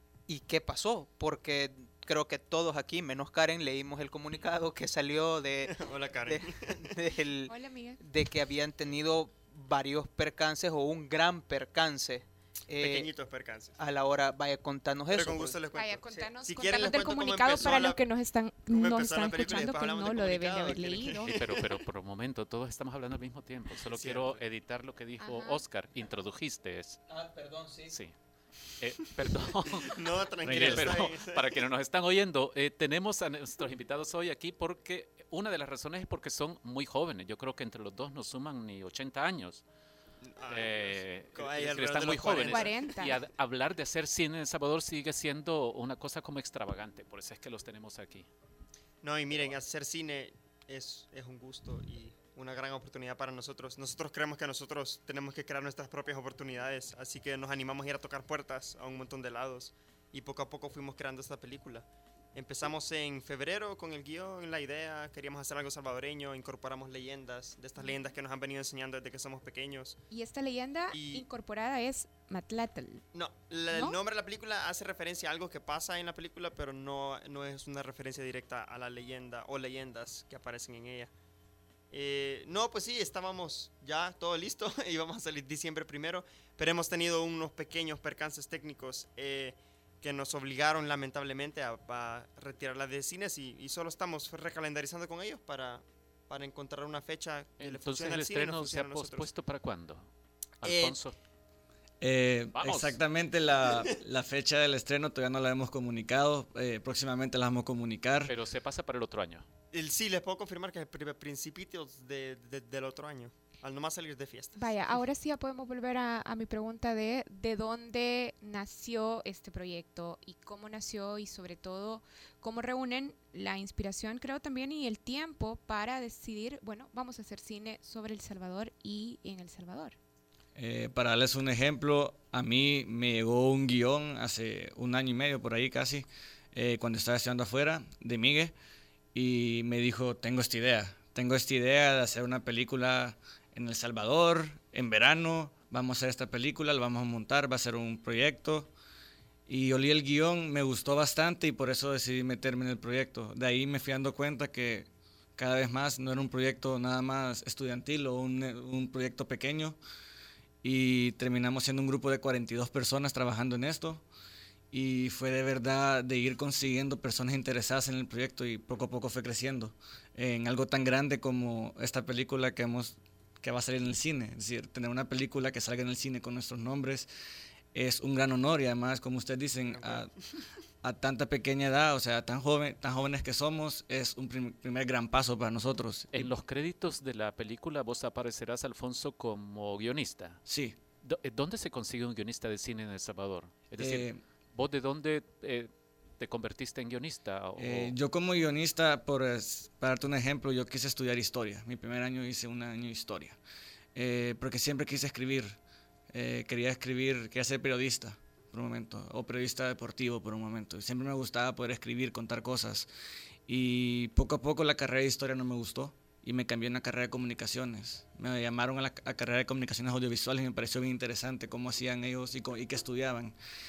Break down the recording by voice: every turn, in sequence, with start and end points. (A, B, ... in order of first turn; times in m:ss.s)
0:00.3-0:13.1 A
0:05.6-0:06.8 B
0:07.5-0:08.0 C
0:12.8-0:13.8 B
0:13.8-0:16.3 A
0:15.1-0:18.0 B
0:15.7-0:21.3 C
0:18.7-0:21.8 B
0:21.2-0:27.0 D
0:23.8-0:24.4 B
0:25.2-0:25.6 C
0:27.1-0:28.0 A
0:28.8-0:39.6 D
0:29.7-0:31.6 B
0:30.6-0:31.0 E
0:40.2-0:42.8 B
0:40.5-0:48.3 D
0:42.5-0:43.2 C
0:49.0-1:10.0 B
1:10.1-1:13.0 C
1:10.9-1:11.2 B
1:13.1-1:21.1 B
1:13.7-1:14.0 C
1:21.9-1:39.3 B
1:37.6-1:40.1 D
1:40.6-1:41.1 D
1:40.6-1:41.0 B
1:42.0-1:48.3 E
1:42.5-1:43.0 D
1:48.3-1:49.4 D
1:49.7-1:55.0 B
1:54.6-2:10.0 C
2:10.5-2:18.5 E
2:19.1-2:28.7 E
2:29.5-2:39.8 E
2:40.6-2:44.0 E
2:44.7-2:57.1 E
2:57.7-3:00.1 E
2:59.6-3:00.1 B
3:00.8-3:06.3 E
3:06.1-3:10.4 D
3:10.4-3:10.8 E
3:11.0-3:17.9 D
3:13.8-3:14.2 E
3:17.6-3:23.4 E
3:23.9-3:25.6 E
3:26.1-3:32.9 E
3:33.5-3:43.3 E